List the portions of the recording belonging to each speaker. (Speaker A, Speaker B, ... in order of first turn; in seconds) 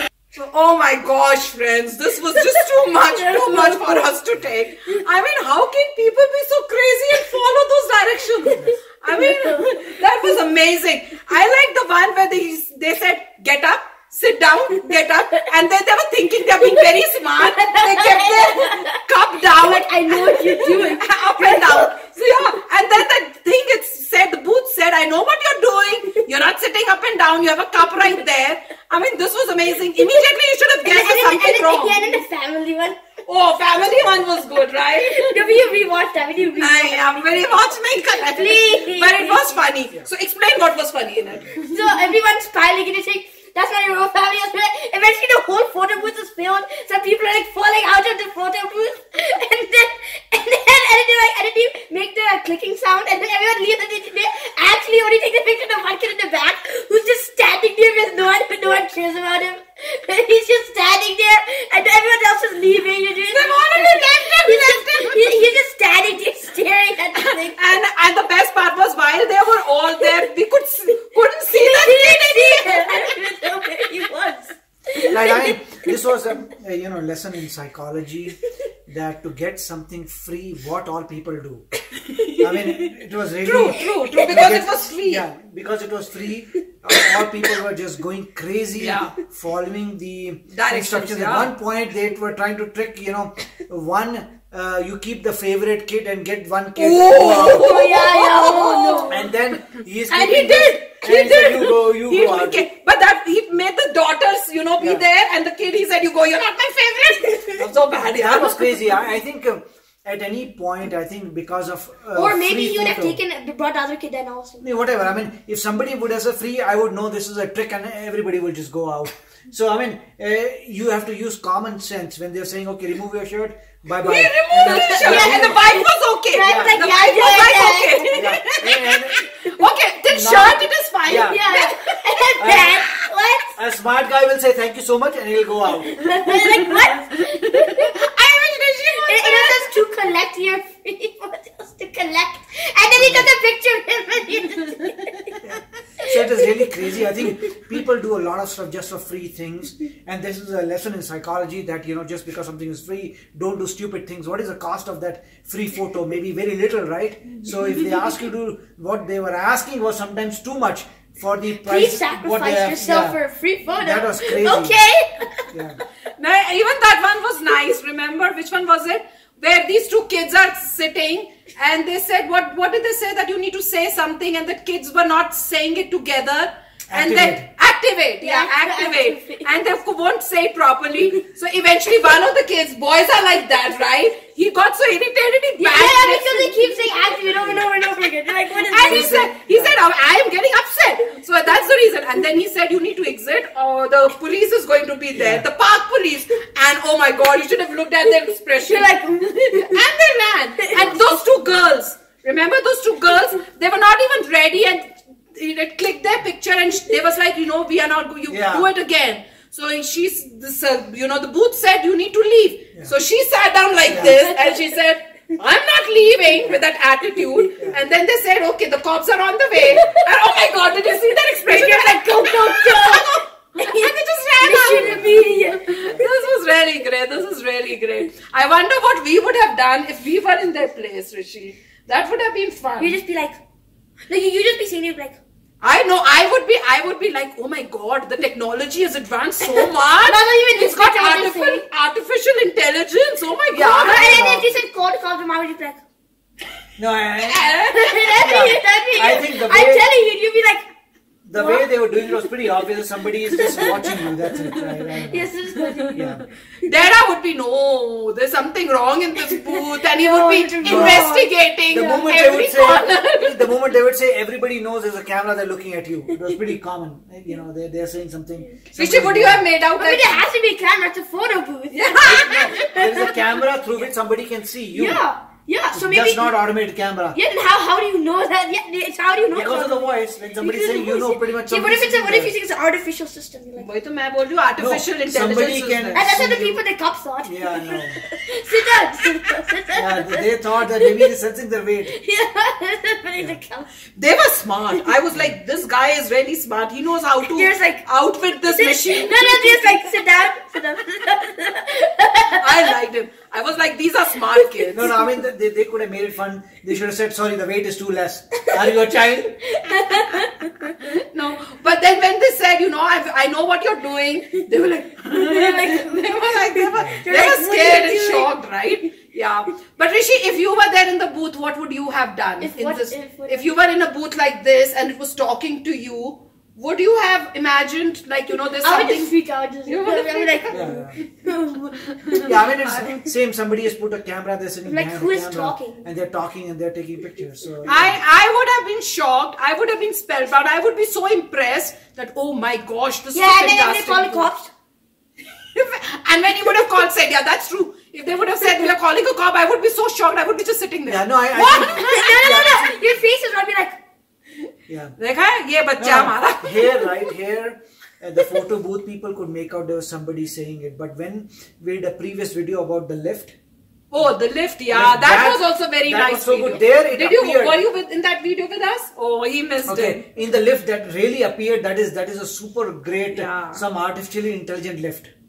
Speaker A: 0.3-32.1, 33.3-35.5, 36.6-41.8, 63.3-65.5, 67.2-73.0, 82.1-82.9, 83.4-85.2, 88.8-89.1, 90.5-91.5, 96.8-108.8, 124.0-131.7, 137.2-139.7, 166.2-186.6, 188.7-198.9, 199.5-233.0, 235.6-244.3, 247.2-248.3, 256.6-263.5, 268.7-270.2, 271.7-272.8, 283.6-286.1, 294.0-299.8, 302.3-304.9, 310.9-329.1, 329.7-330.7, 331.7-333.0, 337.7-344.3, 345.5-352.1, 355.0-356.9, 363.9-370.0, 373.1-373.6
Speaker B: 3.1-4.0, 9.1-9.8, 17.4-18.9, 19.6-22.0, 30.8-33.0, 35.0-37.2, 38.3-39.6, 41.7-67.6, 71.5-75.6, 97.1-99.3, 100.3-100.7, 112.2-114.7, 124.6-125.8, 126.3-128.3, 131.1-133.5, 136.0-137.9, 139.0-145.3, 161.6-165.5, 178.2-179.5, 185.6-189.2, 198.6-199.8, 200.7-201.2, 213.9-214.7, 219.8-220.0, 221.5-225.6, 232.8-233.4, 234.1-235.2, 239.4-241.7, 243.5-245.8, 247.7-250.7, 251.3-252.1, 253.3-254.0, 254.6-256.2, 259.3-262.9, 269.8-273.2, 274.7-276.3, 277.1-283.7, 285.9-291.1, 291.9-293.7, 297.3-302.4, 309.5-310.7, 315.1-318.3, 322.4-323.5, 328.6-331.7, 334.6-335.9, 343.1-344.5, 351.4-353.8
Speaker C: 75.1-81.7, 82.4-97.7, 99.1-102.6, 104.8-105.0, 107.8-113.2, 114.6-125.6, 126.4-126.8, 128.1-129.2, 130.1-131.4, 132.4-132.8, 133.6-136.3, 142.9-143.3, 145.4-163.2, 163.7-164.8, 165.5-165.8, 176.9-177.5, 187.3-187.7, 188.8-189.8, 195.1-195.4, 208.3-208.7, 213.9-214.2, 217.6-217.8, 219.6-219.9, 224.6-226.1, 244.1-244.5, 246.8-247.5, 248.2-249.9, 251.2-255.3, 255.9-256.2, 260.6-261.1, 261.7-269.5, 272.1-275.0, 275.7-277.2, 279.3-282.4, 284.6-286.6, 287.2-288.0, 289.7-292.0, 304.7-309.5, 316.8-317.1, 330.5-331.0, 332.2-338.0, 350.9-352.8, 354.7-355.0, 355.8-363.4, 364.7-367.6, 369.7-375.1